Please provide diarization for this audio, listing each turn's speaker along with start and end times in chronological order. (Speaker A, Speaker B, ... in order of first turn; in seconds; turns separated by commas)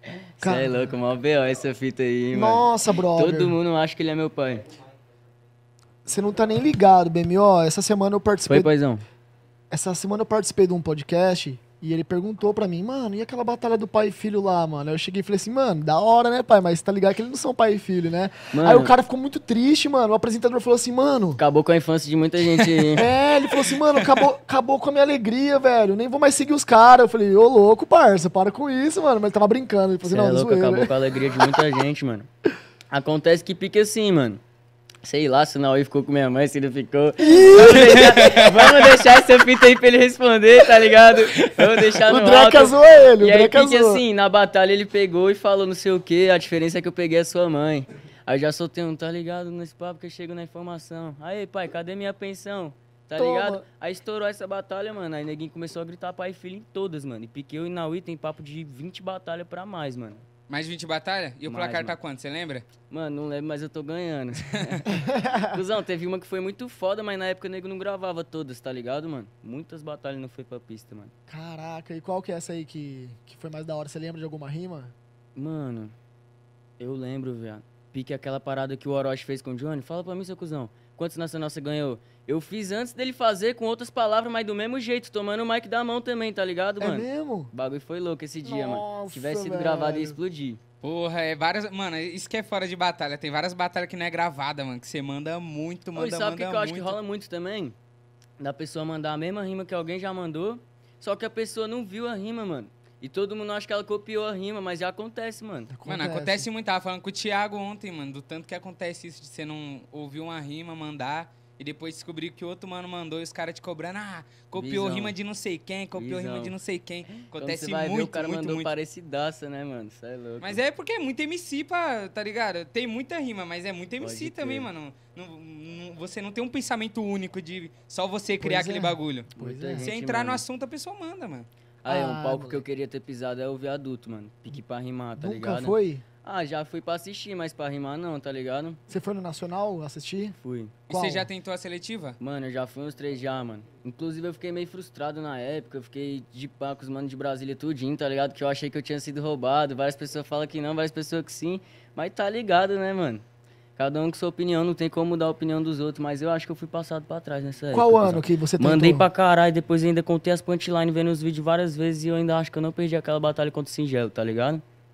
Speaker A: 0.3-4.7, Speaker B: 0.4-1.0, Speaker B: 2.3-3.6, Speaker B: 6.0-8.7, Speaker A: 8.5-9.0, Speaker B: 9.7-21.4, Speaker A: 18.5-18.9, Speaker A: 21.4-23.0, Speaker B: 22.9-31.6, Speaker C: 23.6-24.2, Speaker A: 30.1-32.3, Speaker A: 32.9-34.4, Speaker A: 35.0-60.2, Speaker B: 37.2-38.2, Speaker C: 38.0-38.9, Speaker B: 42.1-44.0, Speaker B: 53.2-53.6, Speaker C: 60.5-62.6, Speaker A: 61.5-62.0, Speaker A: 62.9-71.1, Speaker B: 64.9-65.5, Speaker B: 71.3-75.0, Speaker A: 75.3-75.9, Speaker A: 76.8-90.6, Speaker B: 86.8-87.5, Speaker B: 88.5-90.2, Speaker C: 90.8-97.0, Speaker A: 96.0-97.8, Speaker A: 98.4-105.7, Speaker B: 105.7-106.5, Speaker C: 105.9-118.7, Speaker A: 114.5-115.2, Speaker A: 116.0-116.5, Speaker A: 117.2-120.6, Speaker C: 120.4-131.5, Speaker A: 124.0-124.7, Speaker B: 128.4-129.9, Speaker A: 129.4-130.4, Speaker A: 131.8-138.8, Speaker B: 131.9-132.6, Speaker B: 135.2-136.0, Speaker B: 138.9-140.4, Speaker A: 140.4-140.8, Speaker B: 140.9-141.3, Speaker C: 140.9-142.2, Speaker A: 142.2-153.2, Speaker A: 153.8-164.6, Speaker B: 157.7-159.1